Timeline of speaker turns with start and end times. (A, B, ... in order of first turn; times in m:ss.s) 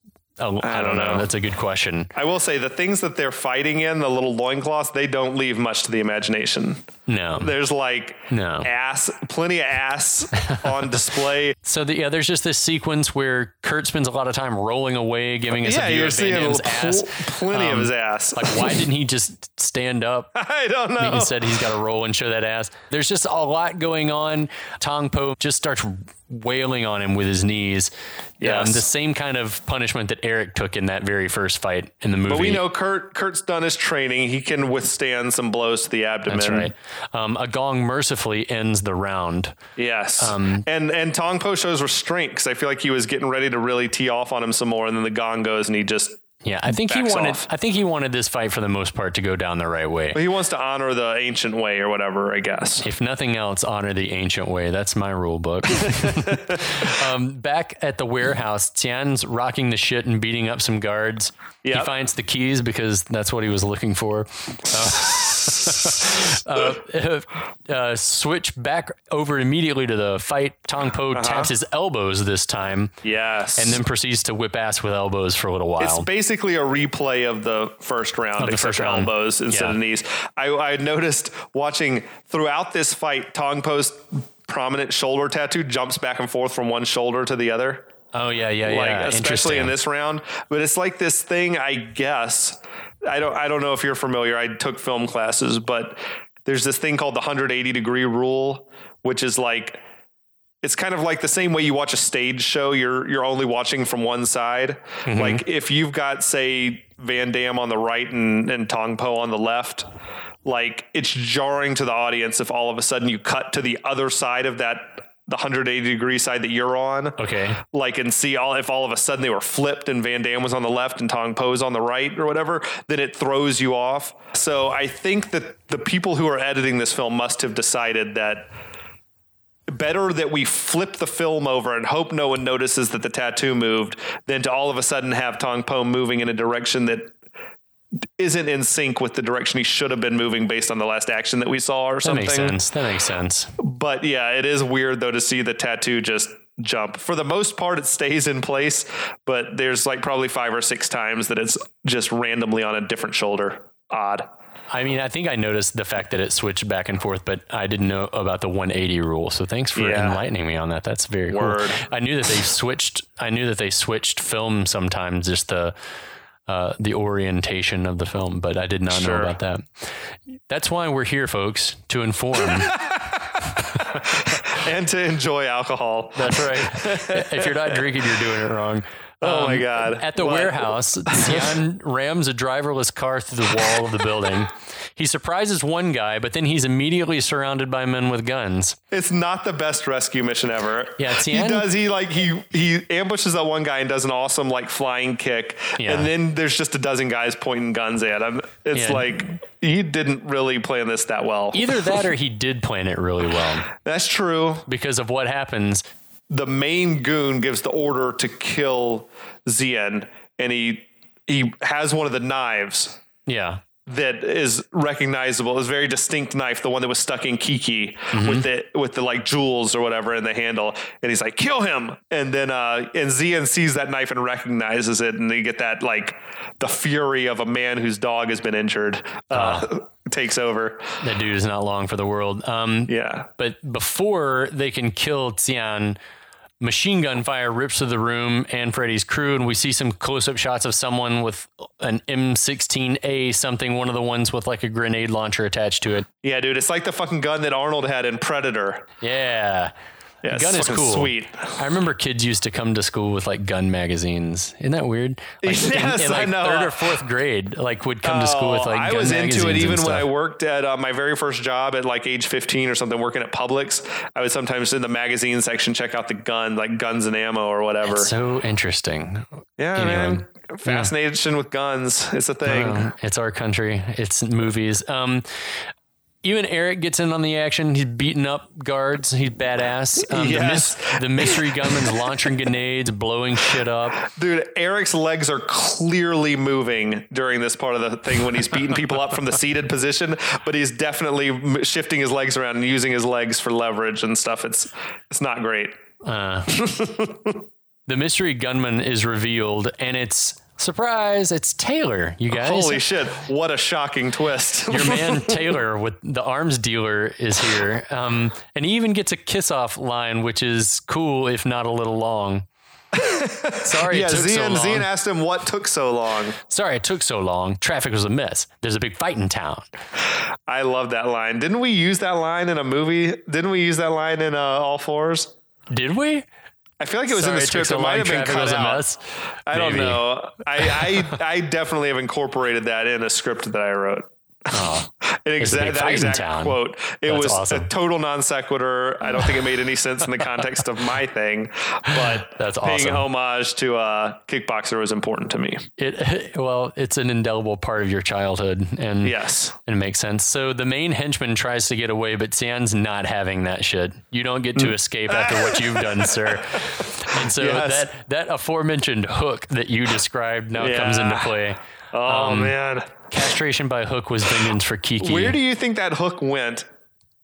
0:00.4-0:02.1 A
0:00.6-0:01.3 B
0:02.2-0:06.8 B
0:07.1-0:07.5 A
0:07.4-0:11.6 B
0:08.3-0:08.7 A
0:10.4-0:10.7 A
0:11.6-0:20.3 A
0:15.6-0:18.8 B
0:20.4-0:21.4 B
0:21.0-0:32.6 A
0:28.4-0:28.9 B
0:32.3-0:36.7 B
0:36.3-0:39.6 A
0:39.8-0:46.2 B
0:40.2-0:40.6 A
0:46.4-0:50.2 A
0:46.8-0:47.5 B
0:50.1-0:52.9 B
0:52.8-1:13.0 A
0:55.8-0:56.7 B
1:01.6-1:01.9 B
1:11.1-1:11.5 B
1:13.0-1:13.8 B
1:13.6-1:16.1 A
1:15.8-1:27.9 B
1:18.4-1:19.8 A
1:28.1-1:29.7 A
1:28.6-1:39.8 B
1:40.6-1:49.9 B
1:45.1-1:45.4 A
1:50.4-2:08.5 B
1:57.2-1:57.6 A
2:09.7-2:17.1 B
2:18.2-2:22.6 B
2:22.0-2:23.5 A
2:23.6-2:34.3 B
2:34.7-2:45.8 A
2:39.8-2:40.2 B
2:41.3-2:41.8 B
2:46.5-2:49.8 A
2:48.9-2:49.3 B
2:50.5-2:52.8 A
2:54.0-2:57.9 B
2:56.2-3:08.8 A
2:59.2-3:01.6 B
3:08.9-3:22.0 B
3:11.0-3:11.7 A
3:15.8-3:16.1 A
3:18.7-3:19.1 A
3:21.5-3:23.7 A
3:23.7-3:24.7 B
3:24.7-3:25.8 A
3:26.3-3:33.0 B
3:33.3-3:33.6 A
3:33.9-3:51.0 B
3:38.1-3:38.5 A
3:49.3-3:49.7 A
3:51.0-3:56.0 A
3:52.9-3:53.3 B
3:56.6-4:06.1 A
4:06.2-4:08.8 B
4:09.0-4:09.7 A
4:10.2-4:11.6 B
4:10.3-4:20.1 A
4:15.4-4:17.0 B
4:18.0-4:28.1 B
4:27.8-4:30.9 A
4:29.6-4:32.8 B
4:32.5-4:35.3 A
4:36.2-4:44.0 A
4:40.0-4:42.0 B
4:44.0-4:55.8 B
4:56.0-4:56.6 A
4:56.5-4:57.4 B
4:57.9-5:02.8 A
5:02.3-5:05.6 B
5:04.7-5:12.5 A
5:12.9-5:16.4 B
5:13.6-5:14.9 A
5:16.5-5:19.7 A
5:20.5-5:25.3 B
5:25.7-5:26.3 A
5:26.8-5:28.8 B
5:27.1-5:29.0 A
5:29.5-5:45.6 B
5:29.5-5:30.1 A
5:34.5-5:34.9 A
5:35.4-5:37.7 A
5:41.9-5:43.0 A
5:45.8-6:02.6 A
5:49.0-5:49.5 B
5:54.6-5:57.9 B
6:00.6-6:01.4 B
6:01.9-6:02.9 B
6:03.1-6:05.4 A
6:05.0-6:06.7 B